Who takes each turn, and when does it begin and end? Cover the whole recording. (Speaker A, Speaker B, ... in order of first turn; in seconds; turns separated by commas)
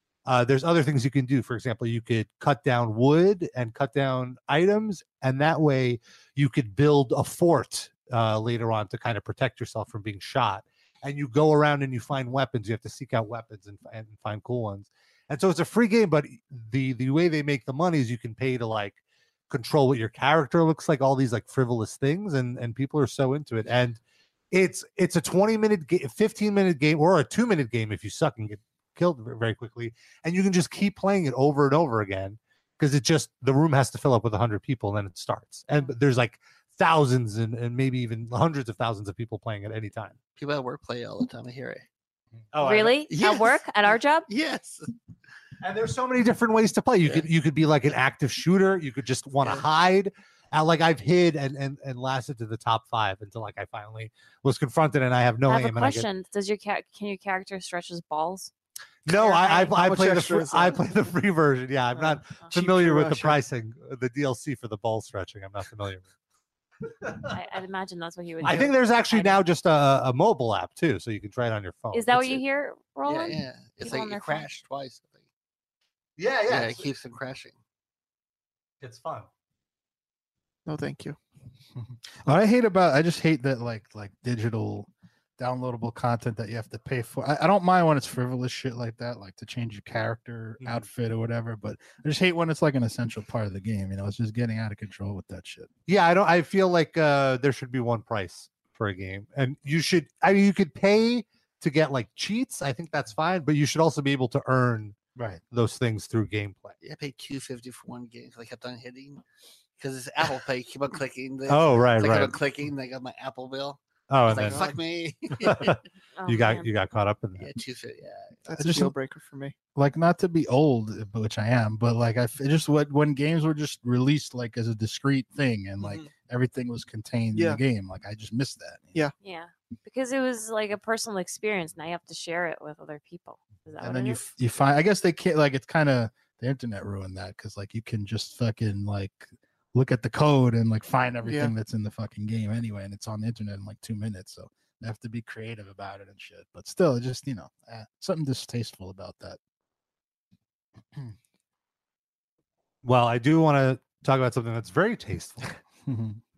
Speaker A: 0.2-19.0, Speaker A: 19.5-24.0, Speaker A: 24.5-40.2, Speaker B: 40.3-41.8, Speaker A: 42.5-43.0, Speaker C: 42.6-44.3, Speaker B: 43.0-43.6, Speaker B: 44.3-44.9, Speaker A: 45.6-56.1, Speaker C: 55.5-58.5, Speaker A: 59.0-66.0, Speaker C: 59.1-59.8, Speaker D: 59.7-60.8, Speaker D: 62.0-63.4, Speaker C: 67.3-69.4, Speaker A: 68.4-72.4, Speaker C: 71.9-74.5, Speaker B: 73.0-75.2, Speaker A: 76.2-76.9, Speaker B: 76.5-77.6, Speaker A: 78.8-79.3, Speaker D: 80.7-81.2, Speaker E: 81.8-95.7, Speaker A: 90.6-90.8, Speaker A: 95.9-104.9, Speaker E: 105.2-105.4, Speaker A: 105.5-106.8, Speaker B: 106.8-109.2, Speaker B: 109.8-115.8, Speaker A: 111.5-112.4, Speaker A: 114.1-114.7, Speaker D: 114.3-114.7, Speaker A: 115.3-117.5, Speaker C: 116.2-116.7, Speaker B: 117.4-118.5, Speaker D: 118.5-119.5, Speaker E: 118.6-118.9, Speaker E: 119.8-129.0, Speaker D: 125.8-126.1, Speaker D: 127.3-127.6, Speaker C: 129.2-134.2, Speaker E: 133.8-149.4, Speaker D: 141.2-141.5, Speaker A: 152.8-155.5, Speaker E: 155.8-156.2